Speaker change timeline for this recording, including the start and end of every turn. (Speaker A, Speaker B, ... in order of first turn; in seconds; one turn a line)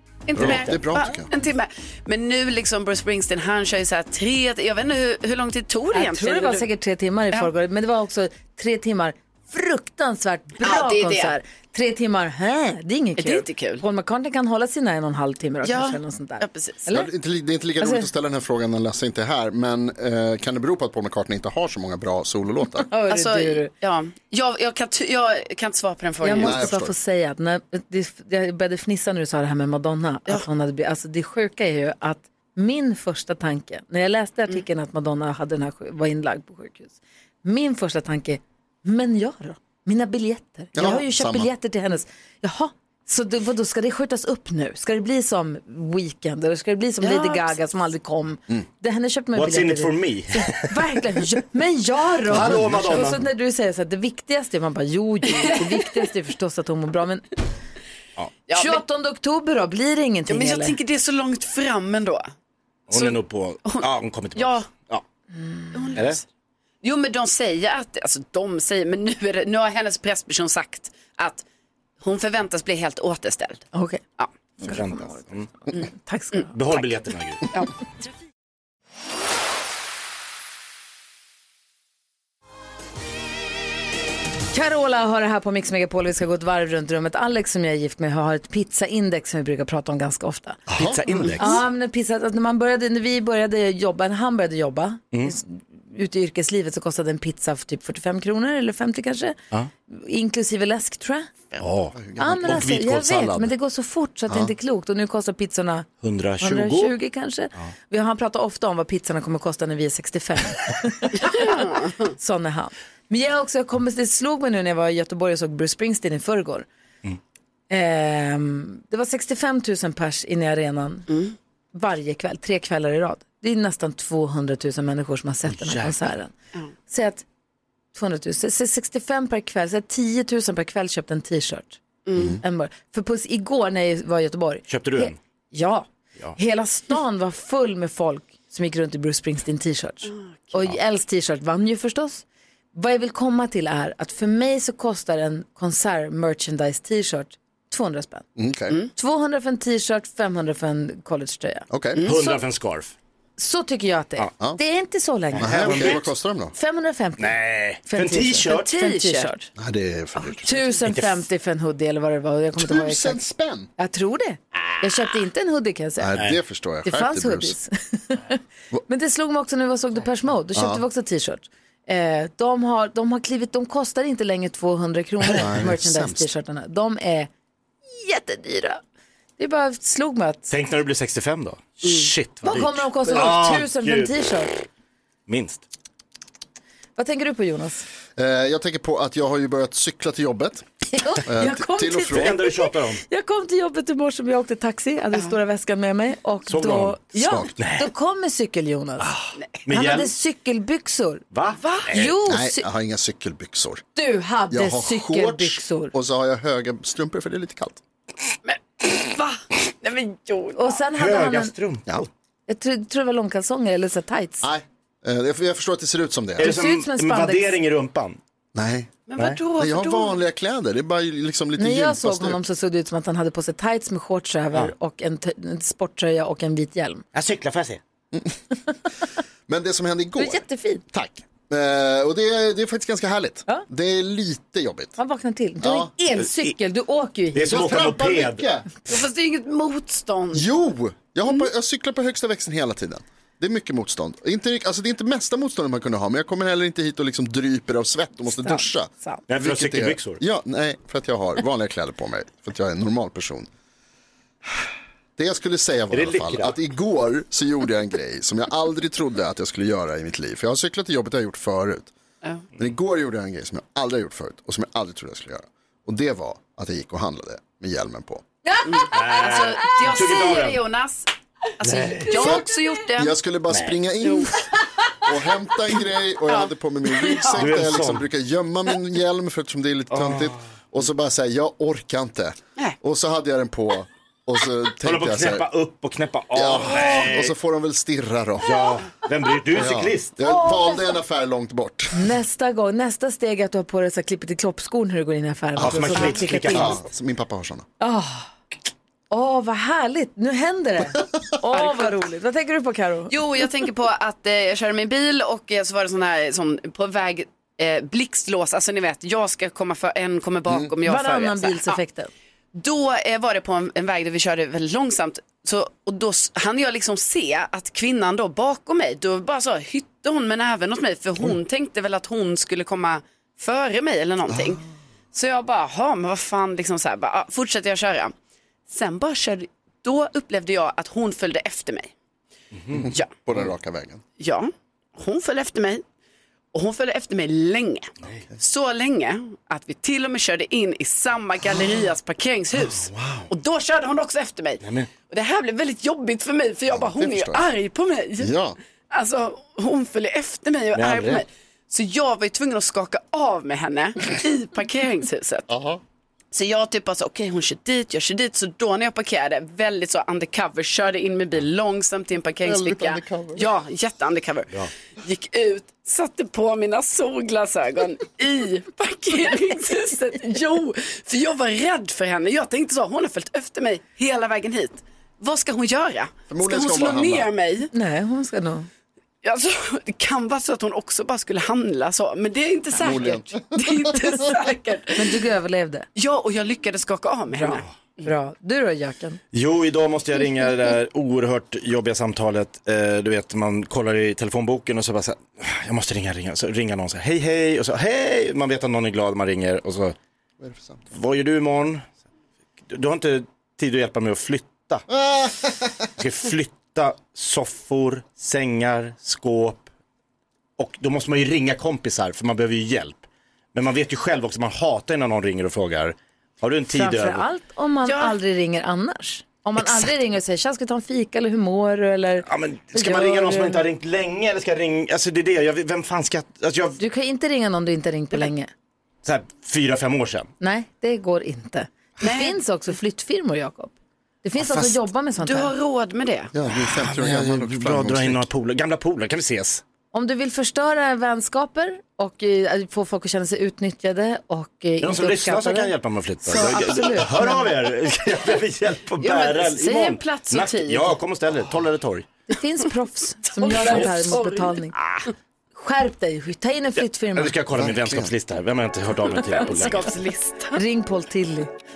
Speaker A: 0.3-6.7
Speaker B: 0.3-1.3
Speaker C: 0.4-0.8
Speaker D: 5.9-17.1
Speaker A: 10.6-11.3
Speaker A: 13.2-13.8
Speaker A: 15.6-16.8
Speaker B: 16.9-22.9
Speaker D: 17.8-18.1
Speaker D: 22.9-23.7
Speaker A: 23.1-26.6
Speaker D: 26.2-57.2
Speaker B: 26.4-26.9
Speaker B: 40.7-41.5
Speaker A: 47.0-47.5
Speaker C: 49.3-50.7
Speaker C: 52.3-53.2
Speaker A: 55.5-55.8
Speaker A: 58.5-58.8
Speaker D: 58.5-60.8
Speaker A: 60.3-62.3
Speaker C: 62.9-65.0
Speaker A: 62.9-63.8
Speaker A: 64.3-64.7
Speaker D: 65.3-66.0
Speaker A: 65.7-66.2
Speaker A: 66.8-71.4
Speaker A: 72.0-73.7
Speaker D: 73.7-74.0
Speaker D: 74.6-76.5
Speaker C: 74.6-75.5
Speaker A: 76.3-76.8
Speaker C: 76.5-77.4
Speaker D: 84.5-90.6
Speaker B: 90.7-91.5
Speaker C: 90.7-91.6
Speaker D: 91.4-101.3
Speaker C: 101.6-103.5
Speaker B: 101.9-102.7
Speaker D: 102.2-105.9
Speaker C: 106.0-106.9
Speaker D: 106.4-116.7
Speaker A: 111.2-112.1
Speaker D: 117.7-121.1
Speaker A: 121.1-121.3
Speaker D: 121.7-126.3
Speaker C: 125.5-126.1
Speaker D: 126.9-127.2
Speaker D: 127.9-131.8
Speaker A: 132.1-132.4
Speaker D: 132.4-148.2
Speaker C: 134.7-135.2
Speaker B: 148.3-148.7
Speaker D: 148.9-152.4
Speaker B: 151.7-152.0
Speaker C: 152.0-152.9
Speaker D: 153.4-156.0
Speaker C: 155.3-156.1
Speaker B: 155.4-156.5
Speaker D: 156.5-159.5
Speaker C: 157.2-158.7
Speaker A: 158.5-159.3
Speaker B: 159.6-160.6
Speaker D: 160.2-163.2
Speaker C: 160.8-161.2
Speaker B: 162.6-163.7
Speaker D: 163.8-166.2
Speaker B: 166.0-167.5
Speaker D: 166.8-177.3
Speaker B: 170.5-170.8
Speaker B: 175.4-176.3
Speaker D: 178.0-178.8
Speaker D: 179.4-180.5
Speaker C: 180.5-184.1
Speaker D: 182.4-184.5
Speaker C: 185.3-185.6
Speaker D: 187.0-187.8
Speaker B: 188.2-190.6
Speaker D: 191.0-199.1
Speaker B: 191.2-192.4
Speaker C: 192.1-193.0
Speaker C: 196.5-197.9
Speaker B: 197.2-197.5
Speaker C: 199.7-200.1
Speaker D: 199.7-201.2
Speaker C: 201.3-202.1
Speaker A: 201.6-201.9
Speaker D: 201.9-202.7
Speaker B: 202.2-203.8
Speaker D: 203.9-205.9
Speaker B: 204.5-207.8
Speaker A: 208.4-210.7
Speaker D: 210.5-211.5
Speaker C: 210.9-212.1
Speaker D: 212.5-214.5
Speaker B: 214.4-216.5
Speaker D: 216.4-217.6
Speaker C: 216.4-218.2
Speaker B: 218.5-219.0
Speaker A: 219.1-220.2
Speaker B: 219.5-222.4
Speaker D: 221.6-227.0
Speaker C: 227.1-227.8
Speaker B: 229.5-234.9
Speaker D: 230.2-230.8
Speaker D: 235.0-237.6
Speaker B: 235.6-235.9
Speaker C: 237.3-238.4
Speaker B: 237.5-238.7
Speaker A: 238.9-240.4
Speaker B: 240.3-248.9
Speaker D: 248.3-249.2
Speaker C: 249.3-250.2
Speaker B: 249.4-253.5
Speaker B: 255.2-261.9
Speaker C: 255.9-256.5
Speaker B: 262.6-268.2
Speaker A: 268.6-273.1
Speaker C: 268.9-270.6
Speaker C: 271.6-272.4
Speaker B: 272.1-274.4
Speaker B: 275.0-285.4
Speaker A: 276.3-277.4
Speaker C: 277.3-278.0
Speaker C: 279.9-280.4
Speaker C: 284.8-287.3
Speaker B: 286.3-288.5
Speaker C: 288.4-290.1
Speaker B: 289.5-292.1
Speaker D: 290.2-290.9
Speaker D: 291.9-296.8
Speaker C: 295.6-296.8
Speaker B: 295.6-297.7
Speaker D: 297.8-298.3
Speaker D: 299.1-303.1
Speaker A: 301.5-302.0
Speaker A: 303.1-311.8
Speaker D: 310.8-312.1
Speaker A: 312.5-324.6
Speaker B: 324.3-324.6
Speaker A: 325.1-328.1
Speaker A: 328.7-331.9
Speaker C: 332.5-332.9
Speaker B: 332.7-334.0
Speaker A: 332.9-333.2
Speaker A: 334.2-335.8
Speaker A: 336.5-348.3
Speaker B: 342.7-343.3
Speaker C: 344.6-344.9
Speaker B: 346.7-347.4
Speaker B: 348.2-348.6
Speaker A: 348.9-355.5
Speaker C: 350.7-351.2
Speaker B: 355.5-355.8
Speaker A: 356.3-377.7
Speaker B: 362.4-363.5
Speaker B: 376.3-377.3
Speaker D: 377.7-378.7
Speaker A: 379.2-385.2
Speaker B: 382.8-383.9
Speaker D: 384.9-385.9
Speaker A: 385.9-387.6
Speaker D: 387.4-389.2
Speaker C: 389.3-399.9
Speaker B: 400.4-400.9
Speaker C: 400.9-401.8
Speaker C: 402.7-404.8
Speaker B: 404.9-405.9
Speaker C: 406.0-409.7
Speaker C: 410.6-417.2
Speaker D: 416.7-423.6
Speaker A: 417.8-418.1
Speaker C: 422.2-426.8
Speaker D: 426.8-428.5
Speaker C: 429.0-430.3
Speaker D: 430.4-433.7
Speaker A: 432.0-432.4
Speaker D: 434.2-435.5
Speaker A: 435.2-436.3
Speaker B: 436.3-438.2
Speaker C: 436.6-439.6
Speaker D: 439.9-445.7
Speaker C: 444.8-452.0
Speaker D: 446.2-447.5
Speaker A: 449.0-451.0
Speaker D: 452.3-454.7
Speaker A: 453.4-454.6
Speaker C: 453.6-453.9
Speaker D: 455.6-457.4
Speaker C: 457.1-459.9
Speaker B: 457.6-458.1
Speaker A: 459.2-460.6
Speaker D: 460.5-461.5